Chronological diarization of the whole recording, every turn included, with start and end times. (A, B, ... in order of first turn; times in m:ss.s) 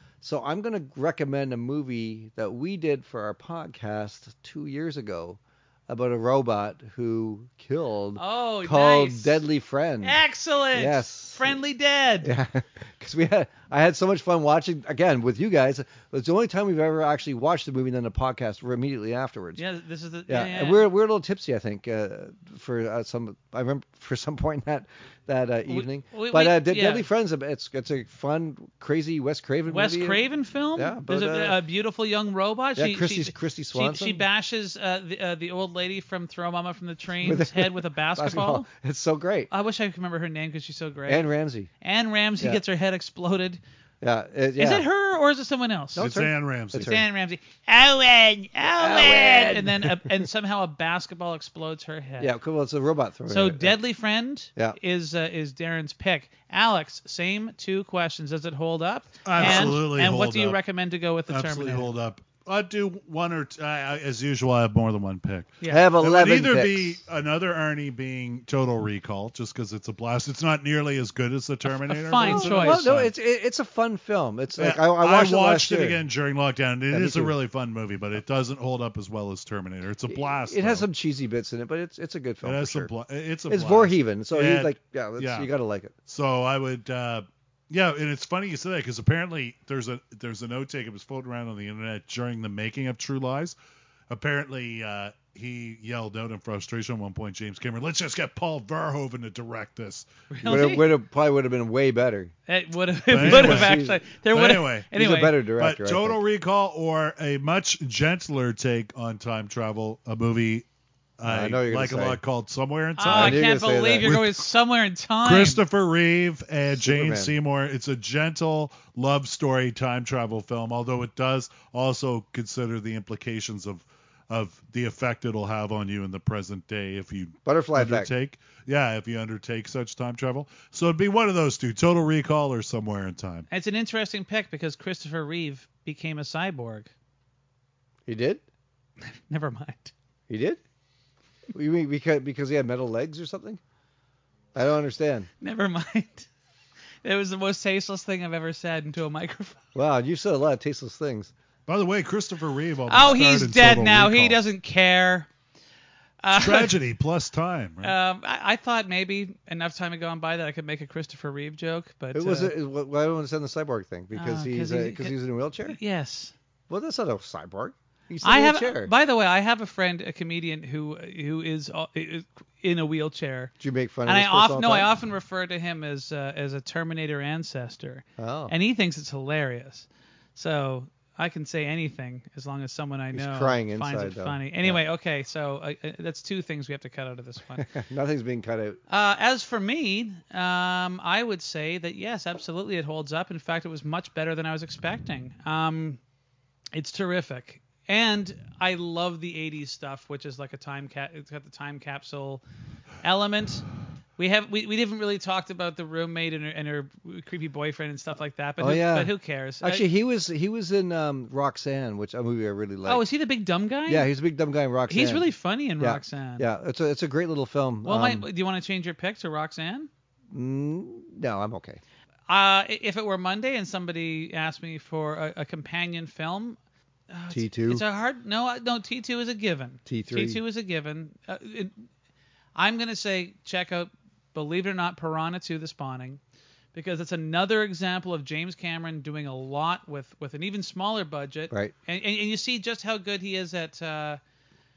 0:00.2-0:10.2 A
0:08.2-0:09.4 B
0:10.0-0:12.3 B
0:10.7-0:11.6 A
0:12.2-0:19.6 A
0:19.6-0:20.9 B
0:20.3-0:31.6 A
0:25.7-0:27.0 B
0:29.7-0:38.6 B
0:32.8-0:34.2 A
0:37.2-0:39.5 A
0:39.5-0:43.6 B
0:41.1-0:41.7 A
0:44.0-0:44.8 A
0:44.6-0:46.1 B
0:45.9-0:47.0 A
0:46.0-0:46.9 C
0:46.8-0:52.3 B
0:48.8-0:50.2 A
0:52.2-0:53.8 A
0:53.3-1:01.9 B
0:59.2-1:00.6 C
0:59.4-0:59.8 A
1:01.3-1:13.1 C
1:05.7-1:07.0 A
1:11.7-1:12.8 B
1:12.2-1:16.0 A
1:14.6-1:20.9 C
1:16.9-1:17.3 A
1:20.1-1:22.9 A
1:22.4-1:25.5 C
1:23.5-1:25.9 A
1:26.1-1:33.5 C
1:34.1-1:40.1 C
1:40.3-1:40.9 B
1:40.4-1:42.3 A
1:42.5-1:45.4 B
1:43.1-1:43.8 C
1:43.2-1:44.0 A
1:44.3-1:44.9 C
1:44.9-1:46.2 A
1:45.6-1:50.6 C
1:51.2-1:53.4 C
1:51.2-1:52.2 A
1:53.0-1:55.6 B
1:53.1-1:54.1 A
1:54.0-1:54.4 C
1:55.2-2:13.4 C
1:56.8-1:57.3 A
2:07.4-2:08.1 A
2:13.5-2:16.9 B
2:18.1-2:18.4 A
2:19.0-2:19.9 B
2:20.3-2:20.6 A
2:21.5-2:23.6 A
2:24.5-2:25.3 A
2:25.4-2:26.3 B
2:27.0-2:29.6 B
2:29.7-2:31.3 A
2:31.7-2:34.4 C
2:32.9-2:35.3 B
2:36.2-2:36.7 B
2:36.3-2:38.0 C
2:37.8-2:42.5 B
2:42.1-2:45.8 A
2:44.1-2:46.3 B
2:46.7-2:48.9 A
2:48.2-2:53.5 B
2:53.6-2:54.9 A
2:54.0-3:07.7 B
2:58.2-2:58.5 A
3:03.1-3:04.8 A
3:07.5-3:08.8 A
3:08.9-3:16.0 B
3:16.7-3:22.4 B
3:23.0-3:23.6 B
3:24.2-3:29.9 B
3:28.6-3:33.0 A
3:32.8-3:34.1 B
3:33.9-3:35.3 A
3:34.9-3:36.5 B
3:35.8-3:38.3 A
3:37.8-3:39.9 B
3:40.3-3:41.8 A
3:42.3-3:46.6 B
3:47.1-3:51.9 B
3:47.3-3:47.8 A
3:49.8-3:50.4 A
3:52.6-3:56.2 B
3:56.7-4:04.2 B